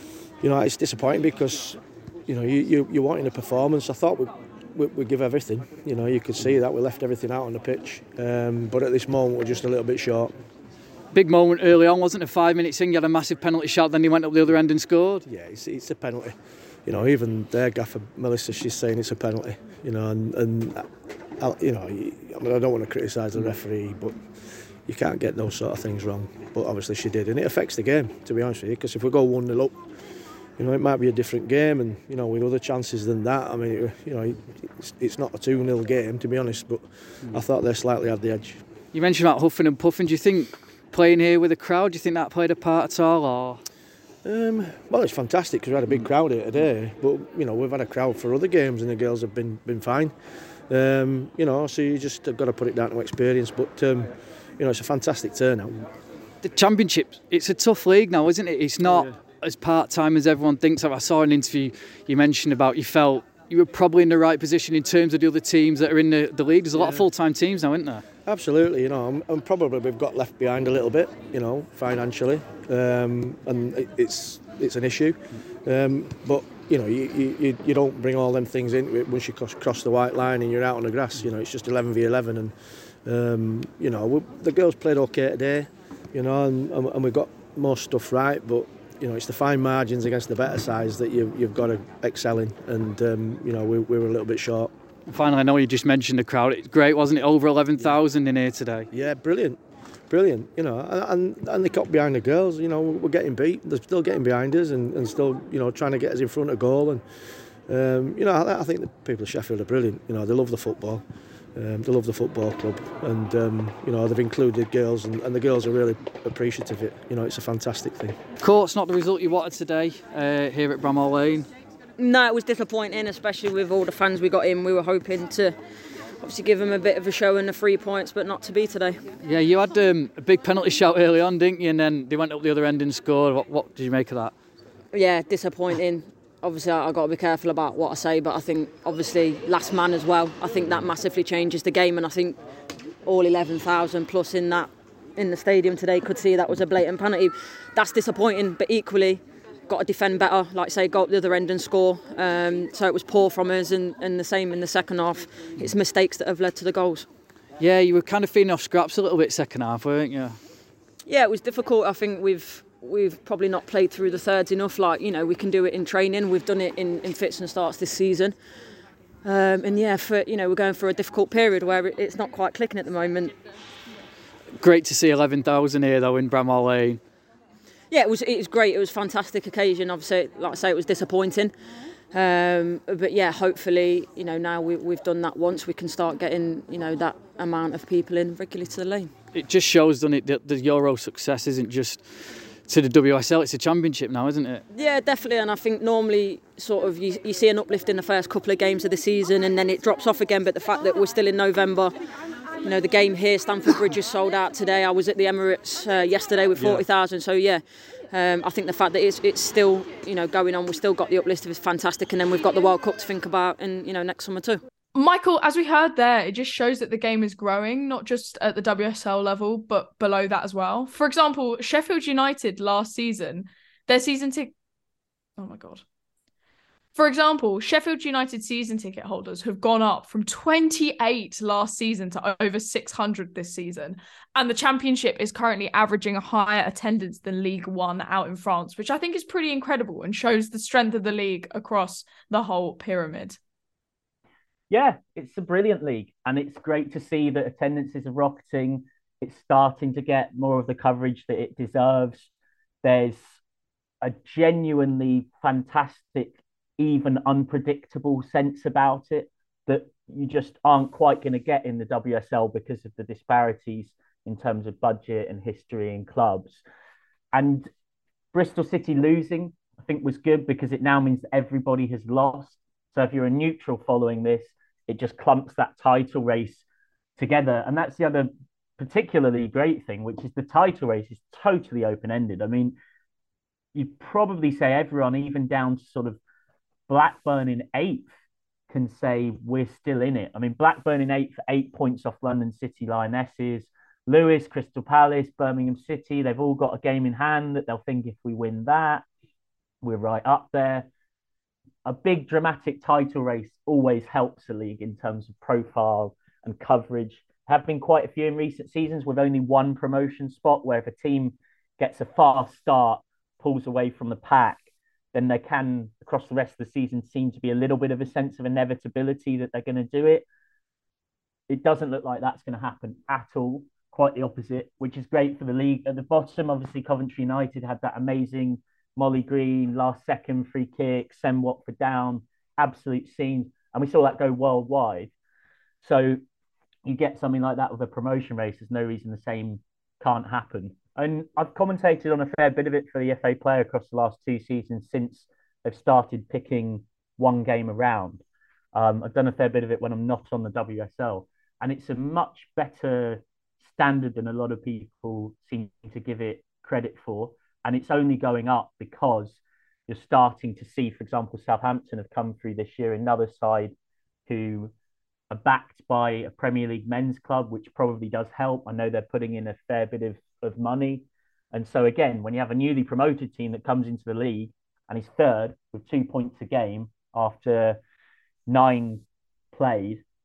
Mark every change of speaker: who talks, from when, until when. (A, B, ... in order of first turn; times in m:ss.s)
0:00.4-0:10.3 A
0:11.1-0:15.2 B
0:15.2-0:38.6 A
0:38.9-0:43.6 B
0:44.2-0:55.9 A
0:56.4-1:08.0 B
0:58.8-0:59.2 A
1:06.8-1:07.0 A
1:08.2-1:34.7 A
1:35.1-1:38.9 B
1:38.9-1:58.2 A
1:58.4-2:01.5 B
2:02.0-2:05.6 C
2:06.2-2:09.0 C
2:09.2-2:14.3 B
2:14.9-2:22.4 C
2:23.0-2:37.1 C
2:37.6-2:40.4 B
2:41.0-2:48.4 C
2:49.2-2:53.4 C
2:54.6-2:57.0 B
2:57.9-3:01.5 C
3:02.1-3:09.1 C
3:09.3-3:14.6 B
3:14.7-3:21.9 C
3:22.6-3:34.6 C
3:26.6-3:26.8 B
3:34.9-3:44.5 D
3:45.4-3:45.8 D
3:46.9-4:03.4 D
4:04.7-4:12.3 E
4:12.8-4:13.4 E
4:14.0-4:26.6 E
4:27.3-4:27.7 E
4:28.3-4:36.6 E
4:37.2-4:42.8 E
4:43.7-4:46.2 E
4:46.9-4:48.1 E
4:48.7-4:59.0 E
4:59.8-5:00.9 E
5:01.8-5:20.2 E
5:21.5-5:35.1 E
5:35.8-5:36.2 E
5:36.8-5:48.2 E
5:48.7-6:03.7 E
6:04.3-6:04.7 E
6:05.3-6:17.8 E
6:18.5-6:20.0 E